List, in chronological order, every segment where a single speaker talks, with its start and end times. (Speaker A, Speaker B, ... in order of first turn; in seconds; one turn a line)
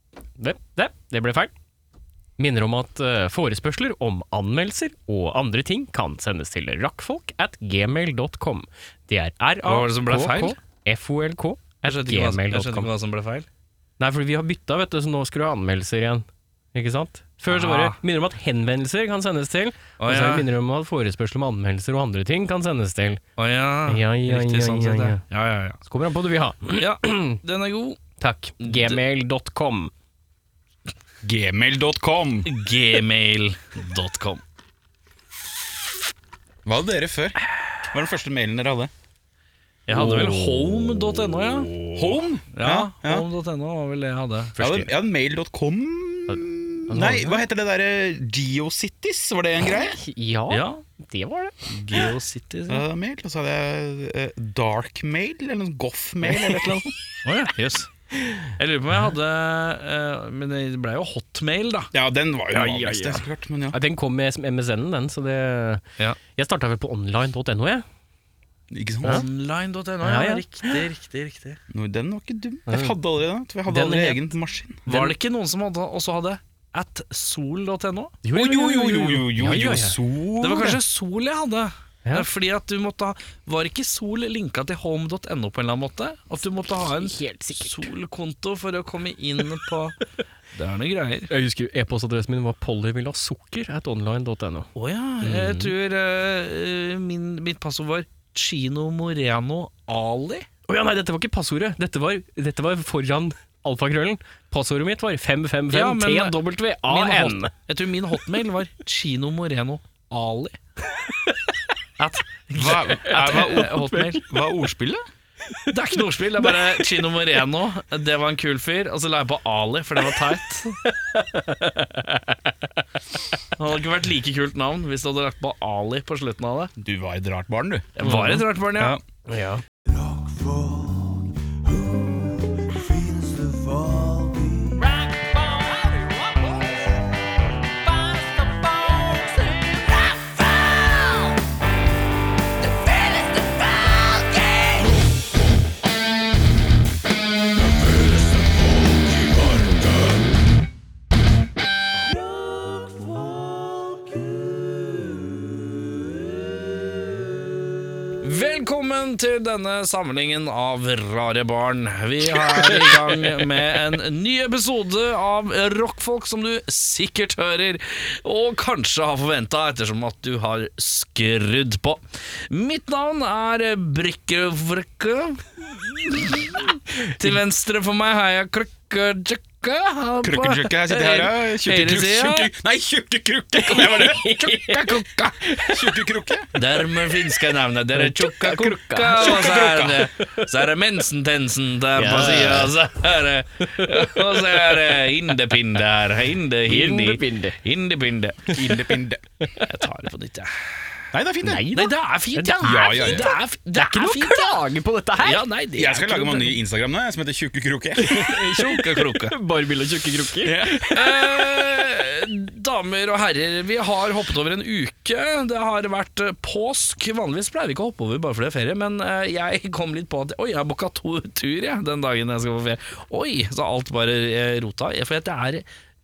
Speaker A: 0.4-1.5
Speaker A: 2.4-12.9
Speaker B: 9.6-10.6
Speaker B: 11.8-13.5
Speaker A: 14.0-23.2
Speaker B: 17.5-18.0
Speaker B: 20.0-20.5
Speaker B: 23.4-25.8
Speaker A: 23.9-25.2
Speaker A: 25.9-27.4
Speaker B: 26.8-28.0
Speaker A: 28.2-29.9
Speaker B: 28.6-29.0
Speaker C: 31.2-32.5
Speaker B: 32.5-34.4
Speaker C: 36.6-38.9
Speaker B: 39.9-44.6
Speaker C: 39.9-40.7
Speaker C: 41.8-43.3
Speaker A: 44.6-44.9
Speaker C: 44.6-50.0
Speaker A: 46.9-47.4
Speaker A: 50.0-51.6
Speaker B: 50.5-50.8
Speaker B: 51.7-52.9
Speaker C: 52.7-56.9
Speaker B: 57.2-57.9
Speaker B: 58.6-61.9
Speaker C: 61.9-63.8
Speaker A: 62.5-65.8
Speaker A: 66.4-67.8
Speaker C: 68.7-69.2
Speaker B: 69.0-71.6
Speaker A: 70.0-70.8
Speaker C: 71.7-75.2
Speaker A: 72.7-73.0
Speaker A: 73.7-74.3
Speaker B: 74.9-78.3
Speaker A: 78.2-80.0
Speaker C: 78.3-80.8
Speaker B: 80.4-90.0
Speaker A: 87.0-87.9
Speaker B: 90.5-91.3
Speaker A: 91.3-94.7
Speaker B: 94.8-100.5
Speaker A: 95.2-95.7
Speaker A: 100.7-107.5
Speaker B: 105.7-110.6
Speaker B: 112.0-114.2
Speaker C: 112.5-113.7
Speaker A: 113.0-114.2
Speaker C: 114.2-115.0
Speaker B: 115.7-120.8
Speaker A: 116.4-116.7
Speaker A: 120.8-122.5
Speaker B: 123.6-126.7
Speaker C: 126.8-128.0
Speaker B: 128.0-129.0
Speaker A: 128.0-128.5
Speaker A: 129.3-129.6
Speaker C: 133.7-134.5
Speaker A: 135.0-136.1
Speaker A: 138.4-140.0
Speaker B: 138.9-139.6
Speaker B: 158.2-182.5
Speaker C: 180.2-186.5
Speaker A: 183.6-186.0
Speaker B: 186.6-198.6
Speaker A: 187.9-189.6
Speaker C: 189.2-190.1
Speaker A: 190.2-190.5
Speaker A: 192.0-192.8
Speaker A: 193.8-194.6
Speaker A: 196.7-197.6
Speaker C: 198.5-199.3
Speaker B: 199.7-201.0
Speaker C: 201.1-201.7
Speaker A: 201.4-205.4
Speaker B: 201.7-204.6
Speaker C: 202.6-203.3
Speaker B: 205.2-206.6
Speaker C: 205.8-208.3
Speaker A: 208.0-211.5
Speaker B: 208.2-209.4
Speaker C: 210.4-210.8
Speaker B: 210.9-225.7